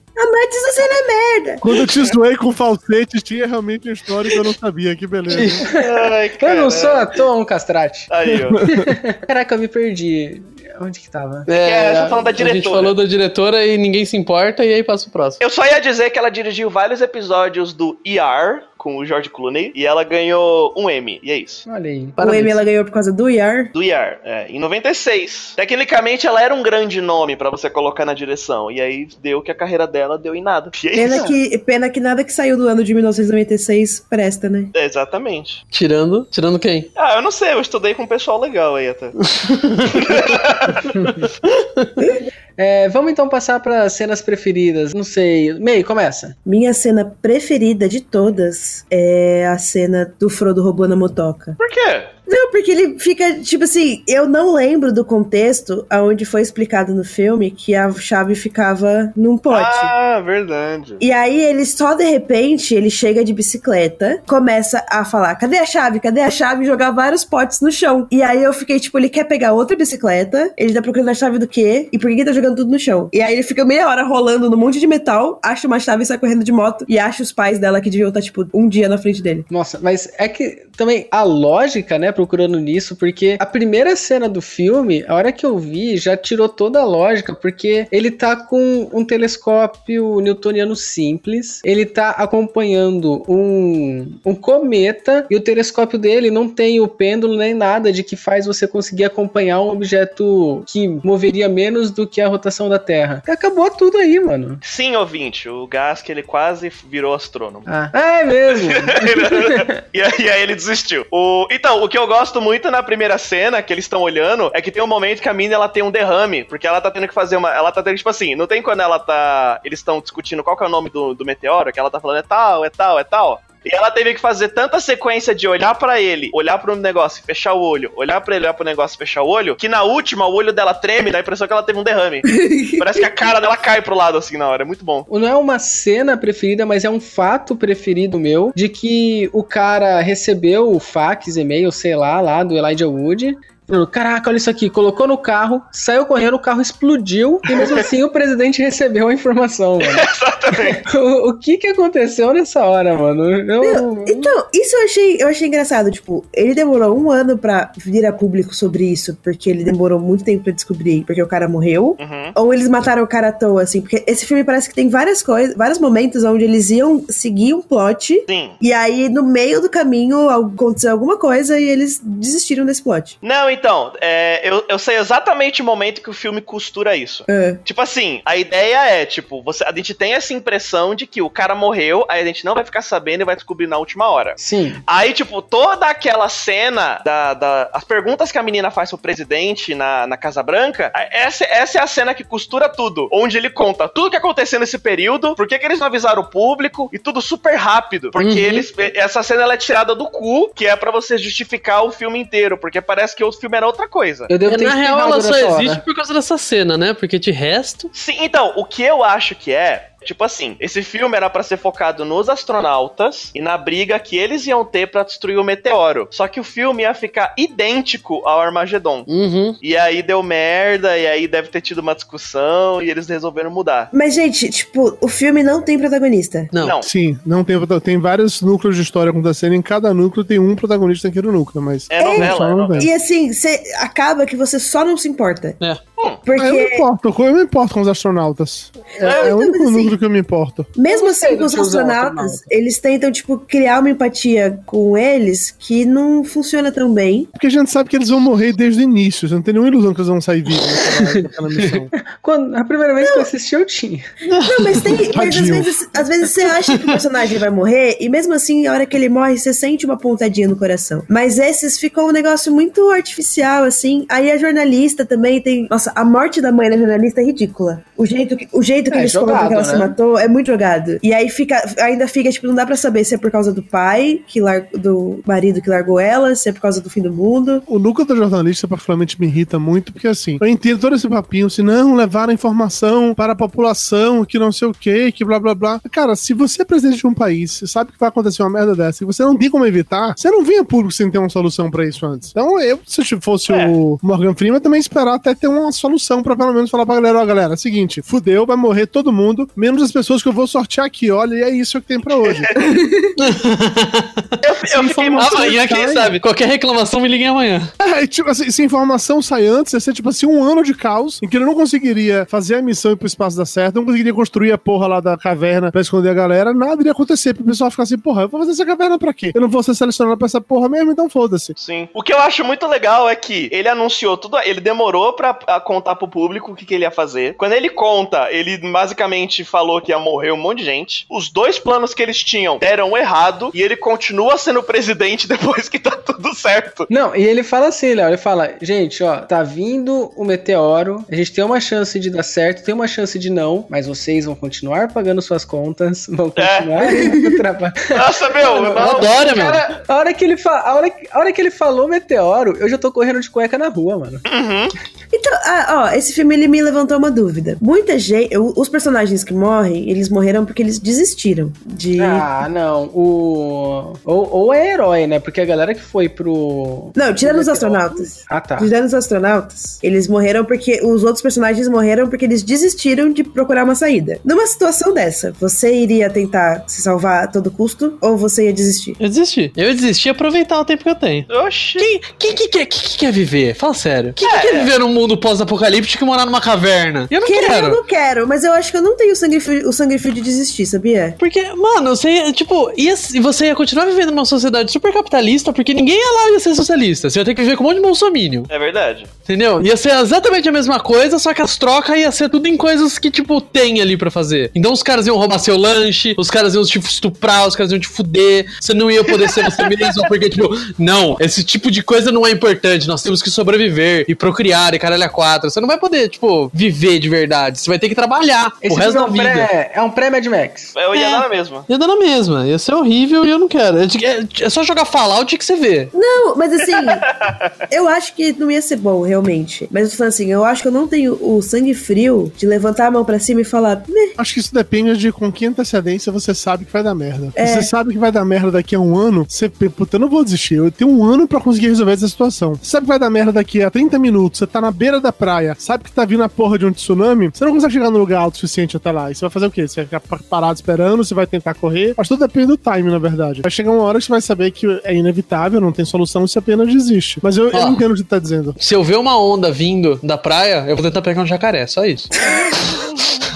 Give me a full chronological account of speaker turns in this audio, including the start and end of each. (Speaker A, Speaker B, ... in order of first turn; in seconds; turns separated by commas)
Speaker A: 0.2-1.7, Speaker B: 1.6-5.7, Speaker C: 5.3-8.1, Speaker D: 5.7-7.2, Speaker D: 8.1-8.6, Speaker B: 8.5-8.8, Speaker C: 8.6-12.2, Speaker E: 11.5-15.4, Speaker D: 11.6-12.9, Speaker D: 15.4-21.7, Speaker C: 21.7-22.2, Speaker A: 22.2-23.7, Speaker E: 22.2-22.6, Speaker D: 23.7-31.3, Speaker A: 30.9-34.7, Speaker C: 31.1-31.4, Speaker D: 34.7-35.6, Speaker E: 35.7-36.9, Speaker D: 37.0-39.2, Speaker E: 39.3-40.1, Speaker D: 39.9-40.9, Speaker C: 41.0-41.3, Speaker E: 41.5-41.9, Speaker A: 42.0-42.2, Speaker C: 42.6-46.4, Speaker A: 46.5-51.6, Speaker D: 51.6-52.1, Speaker A: 52.3-59.9, Speaker D: 59.5-61.0, Speaker A: 61.0-79.5, Speaker C: 79.5-104.6, Speaker D: 104.6-107.7, Speaker C: 107.7-109.7, Speaker D: 108.5-135.1, Speaker A: 132.3-133.1, Speaker C: 135.1-154.3, Speaker D: 147.5-147.9, Speaker D: 149.8-150.8, Speaker A: 153.6-173.2, Speaker D: 162.0-162.3, Speaker D: 168.3-168.6, Speaker D: 173.2-204.3, Speaker A: 177.3-177.6, Speaker C: 184.4-184.8, Speaker E: 198.2-198.7, Speaker C: 204.3-205.8, Speaker E: 204.5-207.9, Speaker D: 207.9-219.1, Speaker E: 219.1-219.6, Speaker D: 219.6-223.9, Speaker A: 223.9-226.5, Speaker E: 226.5-226.8, Speaker D: 226.6-226.9, Speaker B: 226.8-232.9, Speaker D: 231.9-232.9, Speaker A: 232.0-235.6, Speaker A: 236.2-236.9, Speaker B: 236.4-240.8, Speaker A: 239.0-240.0, Speaker D: 239.0-239.3, Speaker A: 240.8-247.3, Speaker C: 240.9-242.4, Speaker B: 247.4-251.9, Speaker C: 250.9-251.2, Speaker C: 251.8-254.1, Speaker A: 253.0-253.3, Speaker E: 254.4-255.0, Speaker A: 254.4-277.7, Speaker B: 255.1-255.8, Speaker C: 268.9-270.0, Speaker B: 277.7-302.5, Speaker D: 293.5-293.8, Speaker D: 302.2-302.6, Speaker A: 302.6-303.1, Speaker E: 303.2-307.7, Speaker D: 304.4-306.1, Speaker B: 305.1-305.7, Speaker B: 307.8-321.6, Speaker D: 321.6-336.9, Speaker C: 336.9-354.2, Speaker D: 346.4-346.8, Speaker A: 346.9-347.4, Speaker D: 347.9-349.7, Speaker E: 348.8-349.7, Speaker D: 354.3-354.7, Speaker A: 355.1-362.3, Speaker C: 362.0-368.7, Speaker A: 366.9-379.0, Speaker E: 379.0-387.8, Speaker D: 381.3-381.9, Speaker D: 384.2-384.7, Speaker A: 387.2-391.2, Speaker E: 391.2-398.5, Speaker D: 398.5-399.1, Speaker E: 399.3-419.5, Speaker D: 409.2-409.7, Speaker C: 418.6-420.8, Speaker D: 420.8-421.7, Speaker E: 420.9-425.9, Speaker A: 425.9-427.1, Speaker D: 426.8-427.5, Speaker A: 427.7-434.2, Speaker B: 434.2-458.6, Speaker A: 437.4-437.7, Speaker E: 457.5-457.8, Speaker E: 458.6-462.2